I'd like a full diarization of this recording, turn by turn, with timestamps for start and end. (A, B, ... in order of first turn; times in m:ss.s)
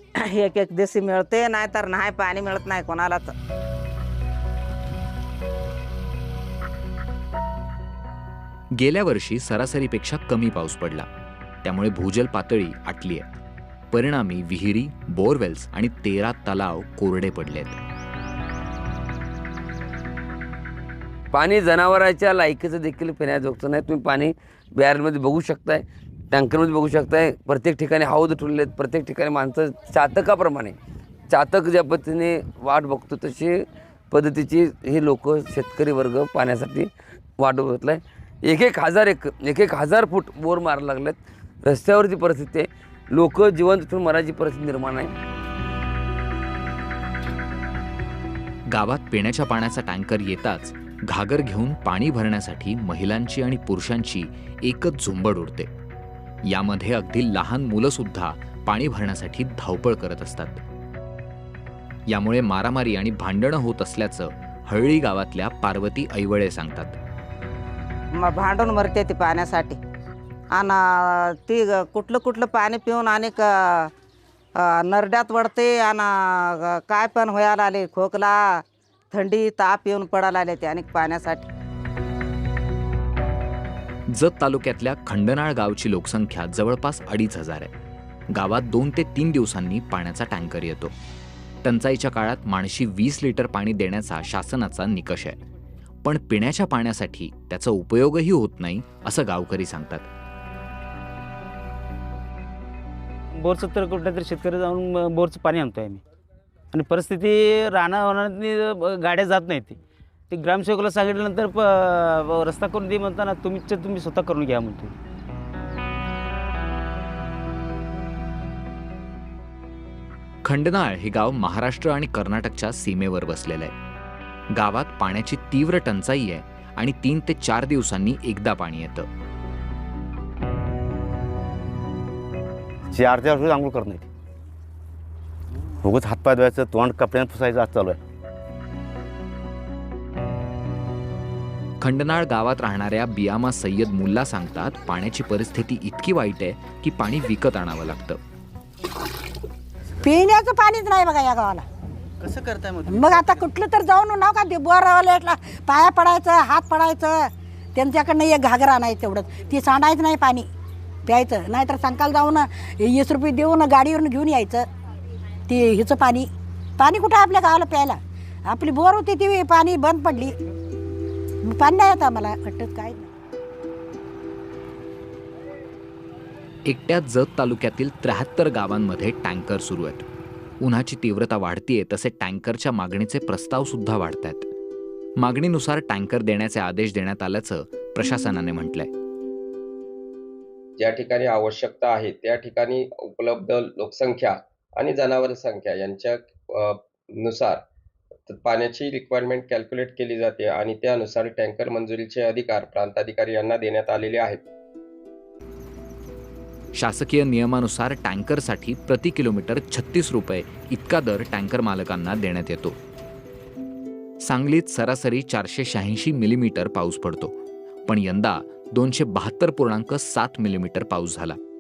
0:00.2-0:03.4 A
0:08.8-0:11.1 B
0:11.6-0:13.2 B
0:13.9-0:17.8 B
0:21.3-0:30.8 C
0:31.3-0:45.1 C
0:48.7-0:55.7 B
0:56.4-1:00.6 B
1:02.1-1:07.0 B
1:08.2-1:09.8 A
1:10.5-1:13.9 A
1:14.6-1:21.5 A
1:24.1-1:27.7 B
1:28.3-1:30.9 B
1:31.6-1:35.4 B
1:36.0-1:40.1 B
1:43.4-1:46.0 D
1:46.7-1:49.8 D
1:50.3-1:54.9 D
2:00.4-2:03.7 B
2:04.6-2:09.1 B
2:12.9-2:14.1 E
2:15.8-2:18.0 E
2:21.8-2:28.2 B
2:30.0-2:31.6 F
2:32.9-2:40.5 F
2:41.1-2:44.7 F
2:45.5-2:50.4 F
2:51.4-2:53.1 F
2:56.7-3:00.0 B
3:00.6-3:04.5 B
3:05.2-3:08.9 B
3:10.8-3:17.6 G
3:18.3-3:24.4 G
3:26.8-3:32.8 B
3:34.2-3:37.4 B
3:37.9-3:41.4 B